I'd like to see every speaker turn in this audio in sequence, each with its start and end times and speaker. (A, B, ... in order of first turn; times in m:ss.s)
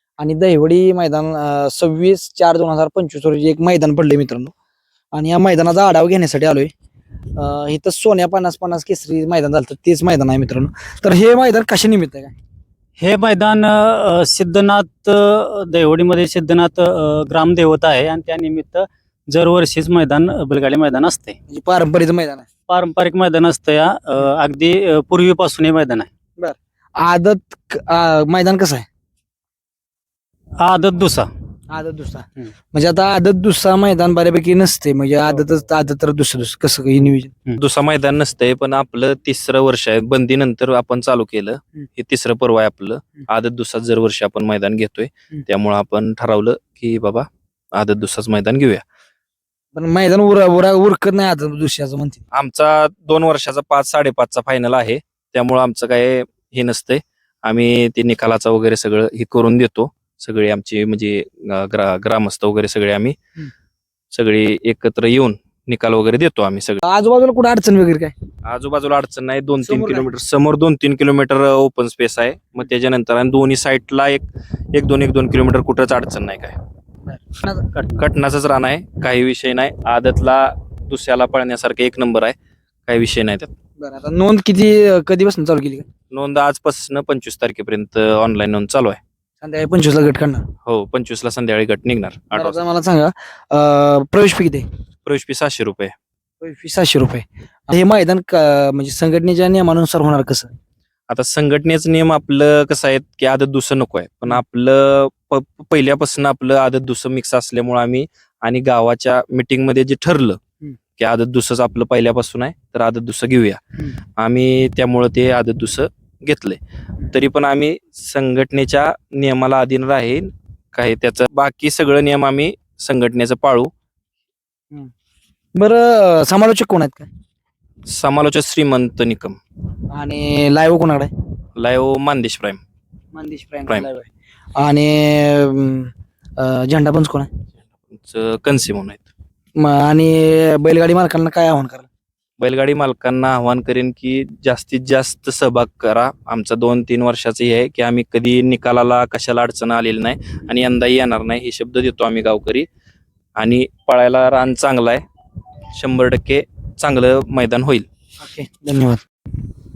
0:00.2-0:04.5 A
0:05.1-0:06.7 A
0:07.4-0:12.3 A
0:13.0-0:21.4 B
0:21.5-0:22.5 A
0:22.7-0:26.1 B
0:26.4-0:28.8 A
0:30.6-0:31.3 B
0:31.7-0:37.3 A
0:37.6-0:48.8 C
0:49.7-0:52.2 A
0:52.3-1:03.2 C
1:04.1-1:06.8 C
1:06.8-1:08.1 A
1:08.4-1:16.6 C
1:09.6-1:10.1 A
1:17.1-1:17.6 A
1:17.7-1:18.0 B
1:18.0-1:22.3 C
1:22.9-1:23.5 C
1:23.8-1:25.9 A
1:26.1-1:29.0 C
1:29.4-1:30.4 A
1:30.6-1:32.6 C
1:32.3-1:34.6 A
1:35.0-1:35.9 C
1:36.4-1:40.5 A
1:41.1-1:50.4 C
1:51.0-1:53.6 C
1:54.2-1:56.6 C
1:57.1-2:03.7 C
2:05.5-2:07.1 A
2:07.9-2:09.4 C
2:09.9-2:11.1 A
2:11.6-2:12.6 C
2:13.1-2:17.3 A
2:17.9-2:19.1 C
2:19.6-2:21.9 A
2:22.4-2:32.6 C
2:33.4-2:35.0 C
2:35.7-2:37.8 C
2:38.2-2:39.0 A